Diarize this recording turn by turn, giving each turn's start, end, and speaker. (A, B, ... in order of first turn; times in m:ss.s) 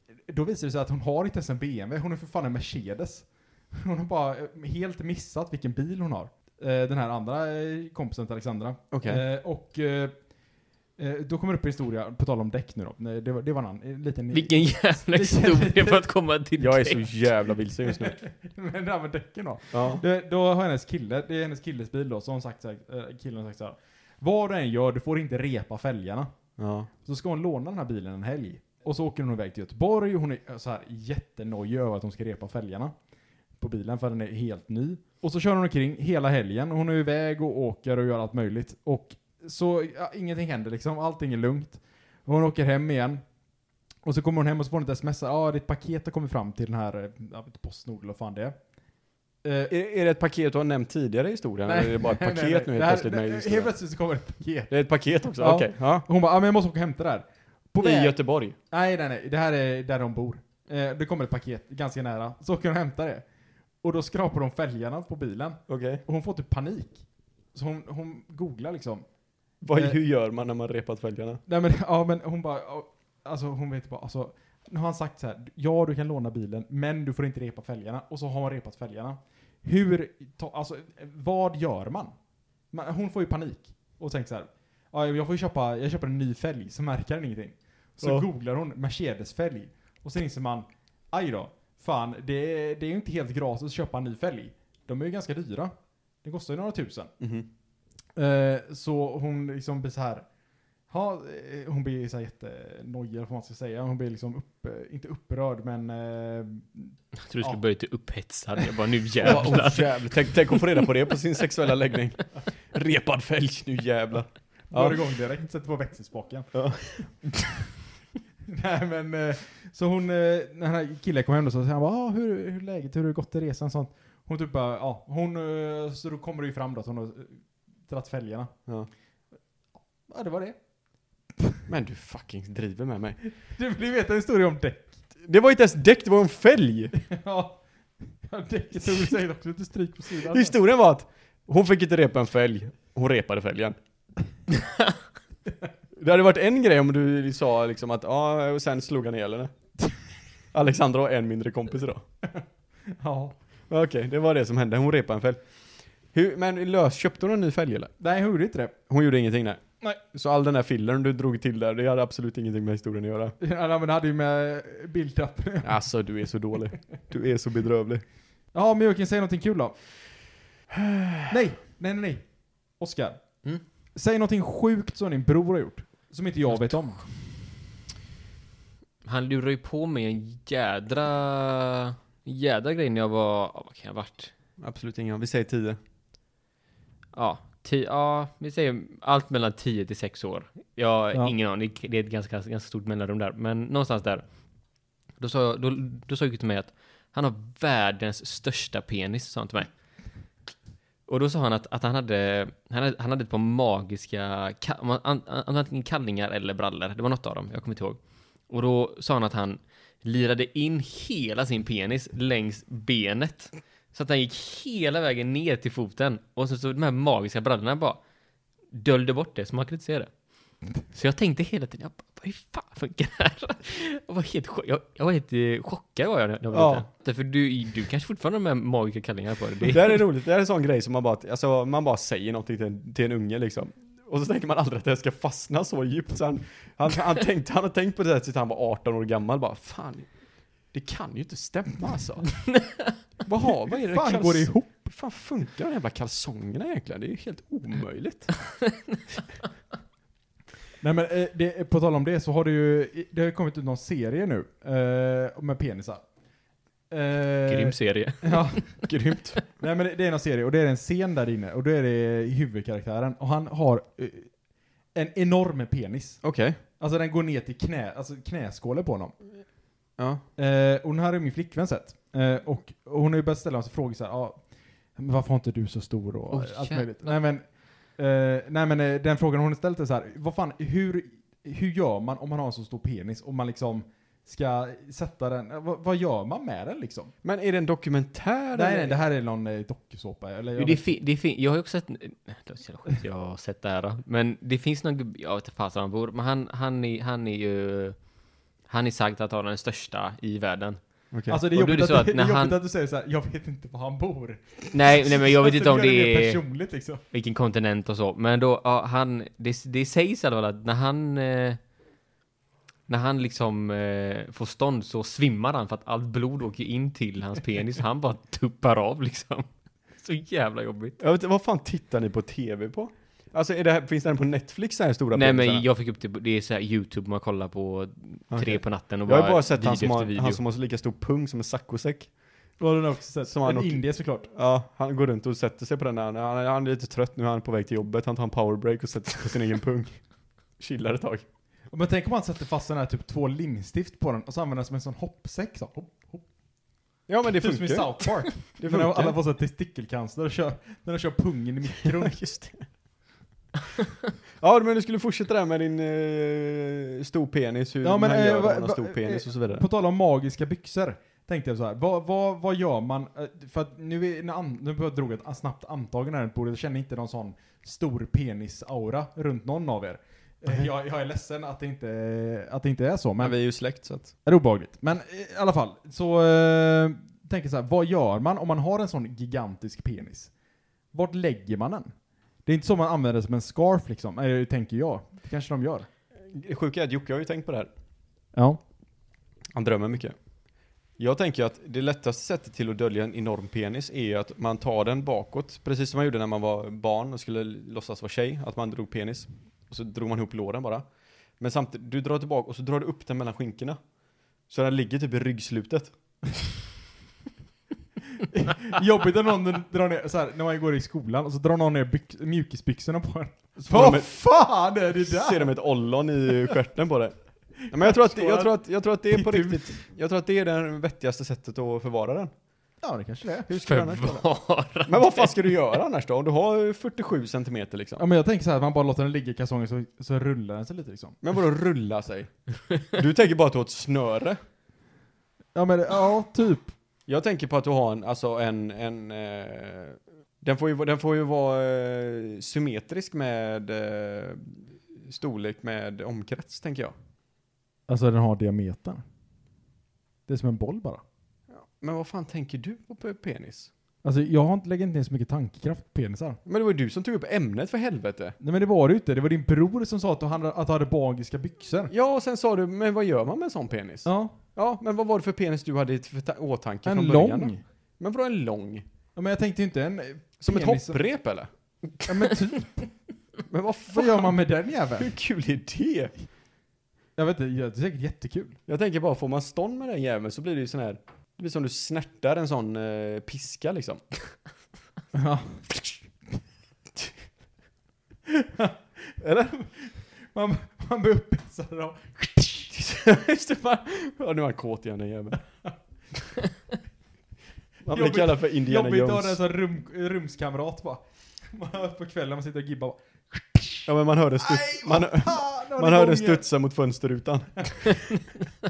0:00.2-0:10.1 A
0:08.9-0:09.2 B
0:11.0-0:16.0 A
0:14.3-0:17.1 C
0:16.6-0:18.2 B
0:17.8-0:26.3 A
0:19.7-0:20.0 B
0:26.6-0:26.9 B
0:27.0-0:32.9 A
0:33.6-0:43.2 A
0:44.0-0:48.6 A
0:49.4-0:49.7 A
0:49.7-0:53.7 B
0:51.6-0:54.7 A
0:54.7-0:56.0 B
0:55.4-0:58.2 A
0:57.8-0:58.5 B
0:58.7-1:03.2 A
1:03.8-1:07.0 A
1:05.7-1:06.0 B
1:07.5-1:09.0 A
1:09.6-1:11.4 B
1:09.7-1:10.0 A
1:11.4-1:22.1 A
1:22.7-1:37.1 A
1:37.2-1:37.5 B
1:38.2-1:40.3 A
1:40.9-1:47.6 A
1:47.2-1:50.4 C
1:49.2-1:55.0 B
1:54.7-1:56.6 A
1:56.5-1:56.8 B
1:58.5-2:08.5 A
2:10.1-2:10.6 A
2:11.7-2:13.2 B
2:13.5-2:15.0 A
2:15.2-2:16.9 B
2:17.0-2:17.6 A
2:18.1-2:20.6 A
2:20.2-2:23.8 B
2:26.0-2:29.5 B
2:30.5-2:32.0 B
2:33.0-2:33.3 A
2:33.7-2:35.4 B
2:36.1-2:37.9 B
2:38.0-2:38.7 A
2:38.9-2:43.3 B
2:43.4-2:45.8 A
2:45.6-2:48.0 B
2:48.5-2:49.8 A
2:50.7-2:51.2 B
2:51.3-2:53.2 A
2:54.0-2:57.0 A
2:59.0-3:04.3 C
3:04.6-3:05.8 B
3:07.1-3:14.2 C
3:15.2-3:19.7 C
3:21.1-3:38.0 C
3:38.7-3:40.1 C
3:40.8-3:50.0 C
3:46.5-3:46.8 B
3:49.6-4:00.1 B
4:00.7-4:02.4 B
4:02.5-4:03.0 C
4:03.2-4:08.3 B
4:03.9-4:04.7 A
4:10.8-4:16.0 A
4:16.9-4:18.7 A
4:17.5-4:18.8 C
4:18.8-4:19.4 B
4:19.6-4:24.4 A
4:24.9-4:29.2 A
4:26.2-4:26.6 B
4:30.0-4:30.2 B
4:30.4-4:47.1 A
4:36.3-4:37.2 C
4:47.2-4:49.0 B
4:48.5-4:50.9 A
4:50.6-4:58.0 C
4:58.7-5:00.8 C
5:01.1-5:01.4 B
5:01.3-5:07.0 A
5:01.5-5:02.6 C
5:04.7-5:06.4 C
5:07.1-5:11.6 C
5:12.9-5:19.5 C
5:20.0-5:21.0 C
5:21.0-5:25.6 B
5:25.1-5:30.4 C
5:28.3-5:32.1 B
5:32.6-5:34.3 A
5:33.3-5:40.0 B
5:40.6-5:41.2 B
5:41.7-5:46.2 A
5:47.1-5:49.2 B
5:47.4-5:52.2 A
5:52.0-5:52.6 B
5:54.4-5:59.6 B
5:57.8-6:13.4 A
6:13.2-6:14.1 B
6:14.0-6:20.3 A
6:20.9-6:21.9 A
6:22.4-6:25.9 A
6:26.2-6:27.7 B
6:28.3-6:28.6 A
6:29.5-6:30.2 B
6:31.0-6:40.8 B
6:41.4-6:43.8 B
6:44.5-6:45.9 B
6:48.3-6:55.5 A
6:53.6-6:54.1 B
6:55.1-6:57.1 B
6:57.6-6:58.6 A
6:57.7-7:02.3 B
6:59.1-6:59.7 A
7:02.8-7:03.5 A
7:03.5-7:04.3 B
7:03.6-7:05.6 C
7:04.8-7:08.0 B
7:08.0-7:11.2 A
7:11.2-7:14.4 B
7:15.5-7:16.7 A
7:17.1-7:26.9 B
7:27.9-7:29.0 A
7:30.3-7:31.0 A
7:31.5-7:33.7 B
7:34.0-7:36.4 A
7:36.4-7:38.4 B
7:38.4-7:41.9 A
7:41.9-7:48.8 B
7:44.0-7:44.4 A
7:46.8-7:47.6 A
7:49.2-7:51.0 A
7:50.4-7:51.5 B
7:52.0-7:52.9 A
7:53.5-7:54.3 B
7:53.9-7:55.1 A
7:55.0-7:56.1 B
7:57.2-7:58.6 A
7:58.7-8:04.0 B
8:05.1-8:05.6 A
8:08.3-8:12.8 A
8:09.2-8:09.5 B
8:12.7-8:15.4 B
8:17.8-8:19.4 B
8:17.9-8:26.4 A
8:23.9-8:28.0 B